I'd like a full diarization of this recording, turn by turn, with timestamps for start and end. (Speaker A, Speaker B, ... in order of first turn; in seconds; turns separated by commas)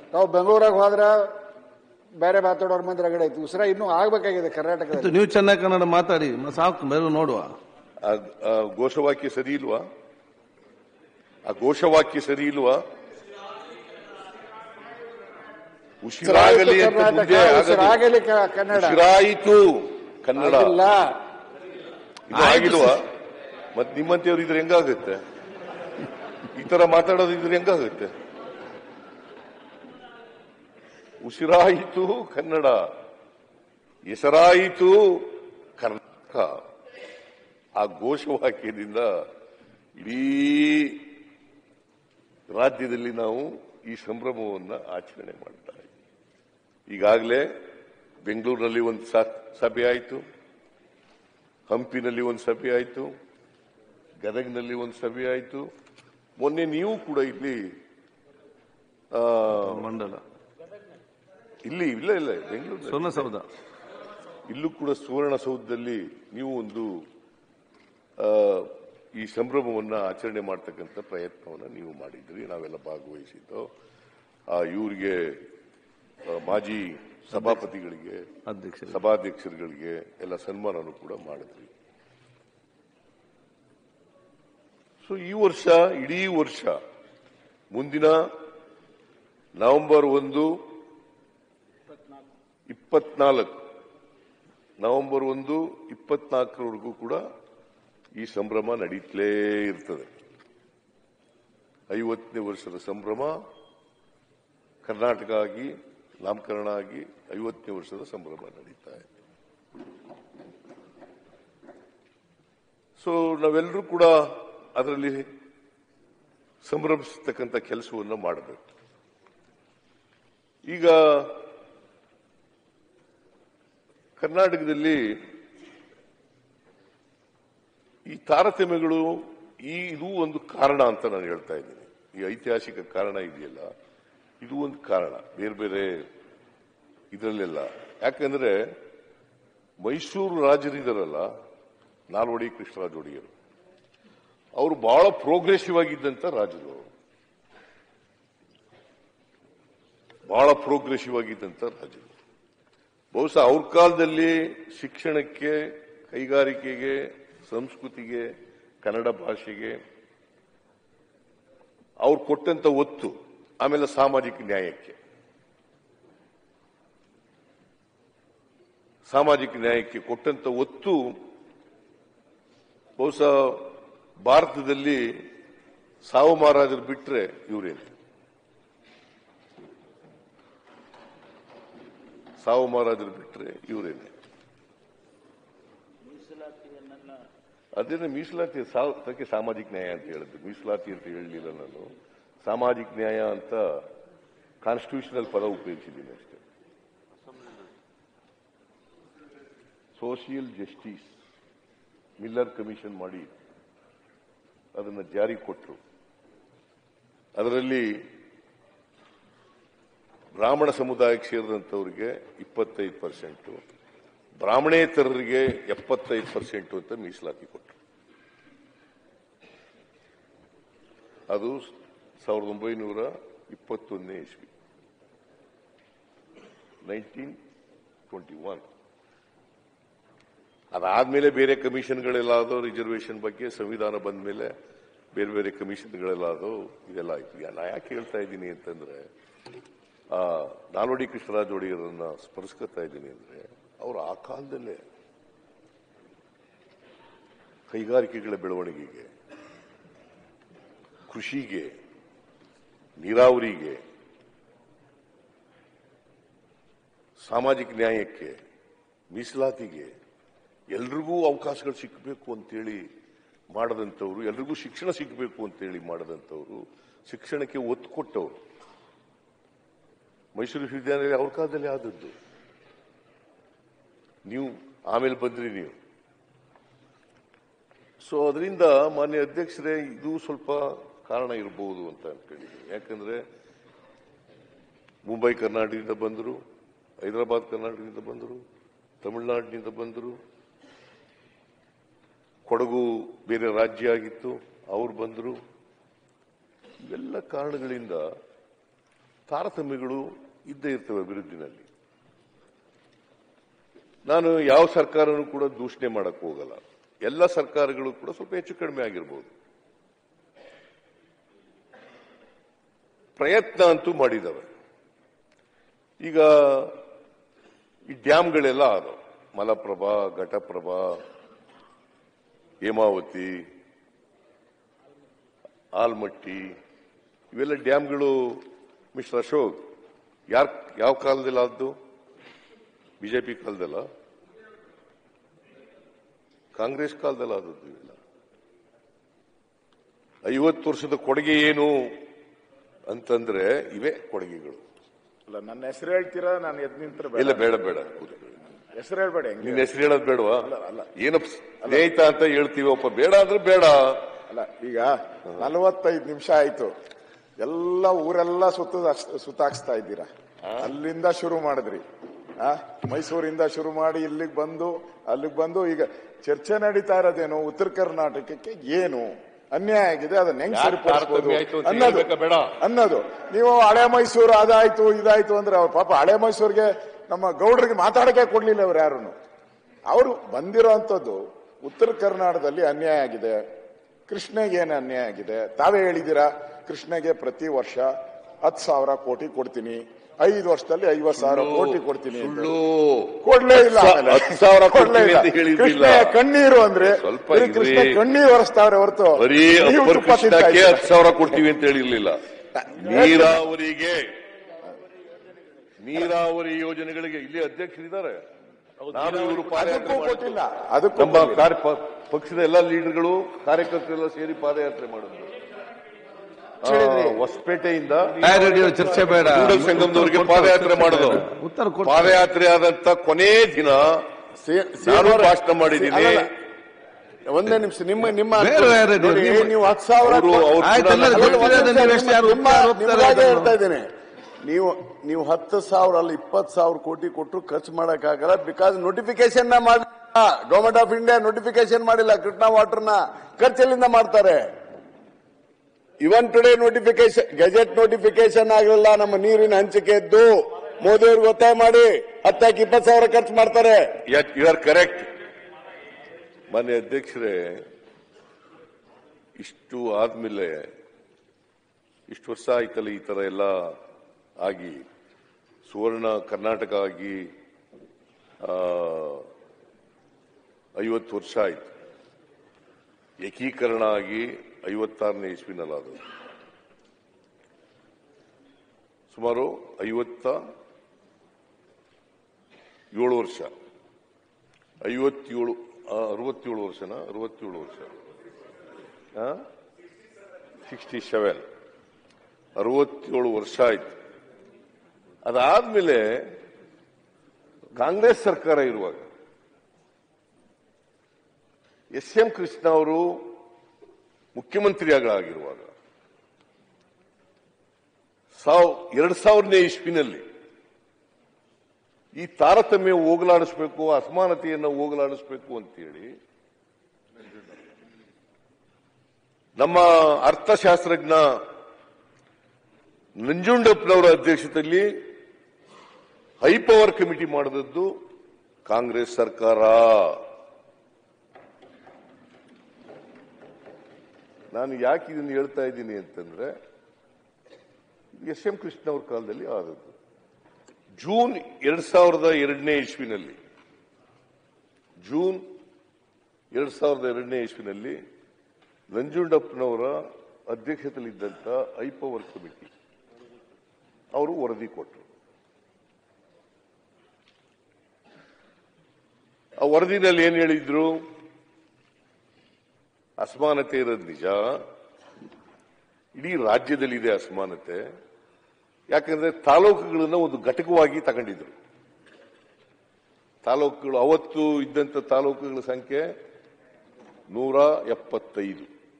Speaker A: 0.1-1.3, Speaker A: 2.2-5.2, Speaker B: 4.9-7.5, Speaker C: 8.0-9.8, Speaker C: 11.5-12.8, Speaker C: 16.0-18.0, Speaker A: 16.2-19.0, Speaker C: 18.7-20.8, Speaker A: 20.3-21.2, Speaker C: 22.3-23.1, Speaker B: 22.3-23.0, Speaker C: 23.7-25.2, Speaker C: 26.5-28.1, Speaker C: 31.2-32.9, Speaker C: 34.1-36.6, Speaker C: 37.8-39.1, Speaker C: 40.0-41.0, Speaker C: 42.5-45.9, Speaker C: 46.9-47.5, Speaker C: 48.2-50.2, Speaker C: 51.7-53.1, Speaker C: 54.2-55.6, Speaker C: 56.4-57.6, Speaker C: 59.1-59.9, Speaker B: 59.5-60.2, Speaker C: 61.6-63.3, Speaker B: 62.8-63.5, Speaker C: 64.5-67.0, Speaker C: 68.2-73.7, Speaker C: 74.5-75.4, Speaker C: 76.3-78.2, Speaker B: 77.3-77.6, Speaker B: 78.5-79.0, Speaker C: 78.9-81.7, Speaker C: 85.0-86.8, Speaker C: 87.7-88.3, Speaker C: 89.6-90.5, Speaker C: 92.7-93.5, Speaker C: 94.8-97.2, Speaker C: 98.2-100.1, Speaker C: 101.9-103.3, Speaker C: 104.8-105.7, Speaker C: 106.2-109.0, Speaker C: 113.0-115.3, Speaker C: 116.6-118.6, Speaker C: 120.7-121.4, Speaker C: 124.2-125.2, Speaker C: 128.1-133.7, Speaker C: 134.4-136.0, Speaker C: 137.1-138.6, Speaker C: 139.8-141.3, Speaker C: 142.1-143.3, Speaker C: 144.6-146.9, Speaker C: 150.3-152.1, Speaker C: 153.1-158.3, Speaker C: 158.8-159.8, Speaker C: 162.0-165.0, Speaker C: 169.1-171.1, Speaker C: 173.0-173.7, Speaker C: 174.2-175.2, Speaker C: 176.0-177.9, Speaker C: 182.4-184.1, Speaker C: 187.8-191.9, Speaker C: 192.4-193.8, Speaker C: 194.6-196.4, Speaker C: 200.0-201.1, Speaker C: 202.2-203.3, Speaker C: 204.7-205.8, Speaker C: 207.3-207.9, Speaker C: 210.3-213.6, Speaker C: 214.4-217.8, Speaker C: 221.3-221.7, Speaker C: 222.2-224.5, Speaker C: 226.8-227.3, Speaker C: 228.1-228.6, Speaker C: 230.7-234.5, Speaker C: 235.1-239.1, Speaker C: 240.1-244.8, Speaker C: 247.7-249.1, Speaker C: 251.1-251.7, Speaker C: 253.0-253.8, Speaker C: 257.2-258.3, Speaker C: 259.1-259.9, Speaker C: 260.7-262.8, Speaker C: 263.5-268.4, Speaker C: 270.4-272.1, Speaker C: 274.3-275.8, Speaker C: 278.0-283.2, Speaker C: 285.1-286.4, Speaker C: 287.0-288.4, Speaker C: 289.0-290.2, Speaker C: 292.5-295.4, Speaker C: 296.9-298.0, Speaker C: 299.3-301.7, Speaker C: 304.1-309.3, Speaker C: 313.2-314.4, Speaker C: 316.0-316.8, Speaker C: 317.9-321.0, Speaker C: 322.6-323.4, Speaker C: 325.8-326.5, Speaker C: 327.3-328.4, Speaker C: 328.9-329.6, Speaker C: 330.3-331.7, Speaker C: 333.0-333.8, Speaker C: 336.6-338.0, Speaker C: 340.2-341.9, Speaker C: 342.9-344.6, Speaker D: 345.3-349.8, Speaker C: 347.1-348.4, Speaker C: 349.4-354.1, Speaker D: 350.4-350.9, Speaker D: 351.6-351.9, Speaker D: 354.3-356.7, Speaker D: 357.4-361.8, Speaker C: 360.4-360.7, Speaker D: 362.4-379.1, Speaker C: 370.5-372.6, Speaker D: 379.9-383.4, Speaker D: 384.1-387.9, Speaker D: 388.4-392.5, Speaker C: 391.1-396.2, Speaker D: 393.2-401.2, Speaker C: 396.8-398.0, Speaker C: 399.1-402.2, Speaker D: 402.5-403.4, Speaker C: 402.8-404.1, Speaker C: 405.8-408.2, Speaker C: 408.9-410.4, Speaker D: 409.3-411.5, Speaker C: 410.9-415.3, Speaker C: 416.6-418.4, Speaker E: 416.7-417.1, Speaker B: 418.2-422.2, Speaker C: 419.1-421.3, Speaker C: 421.8-424.1, Speaker E: 424.4-426.3, Speaker C: 424.8-426.3, Speaker E: 427.2-444.5, Speaker B: 428.3-429.6, Speaker C: 430.0-431.6, Speaker B: 430.6-433.6, Speaker E: 446.0-453.9, Speaker C: 454.1-455.1, Speaker C: 456.5-457.6, Speaker C: 459.4-460.7, Speaker C: 462.1-463.7, Speaker C: 464.4-464.8, Speaker C: 465.6-467.3, Speaker C: 468.4-469.3, Speaker C: 470.8-471.7, Speaker C: 473.2-476.0, Speaker C: 479.1-480.4, Speaker C: 482.9-483.5, Speaker C: 484.8-487.9, Speaker C: 489.1-489.4, Speaker C: 490.7-491.4, Speaker C: 492.6-493.9, Speaker C: 495.2-496.3, Speaker C: 497.8-499.1, Speaker C: 501.9-503.2, Speaker C: 504.3-505.7, Speaker C: 508.3-510.2, Speaker C: 512.1-516.1, Speaker C: 519.6-521.4, Speaker C: 523.2-524.9, Speaker C: 526.4-527.9, Speaker C: 528.6-530.2, Speaker C: 534.5-536.5, Speaker C: 538.1-539.9, Speaker C: 541.0-543.4, Speaker C: 545.0-545.4, Speaker C: 546.5-548.0, Speaker C: 548.9-550.0, Speaker C: 550.5-552.7, Speaker C: 554.1-555.1, Speaker C: 559.6-561.0, Speaker C: 563.2-564.4, Speaker C: 566.1-567.8, Speaker C: 568.9-571.5, Speaker C: 573.4-576.1, Speaker C: 577.3-578.7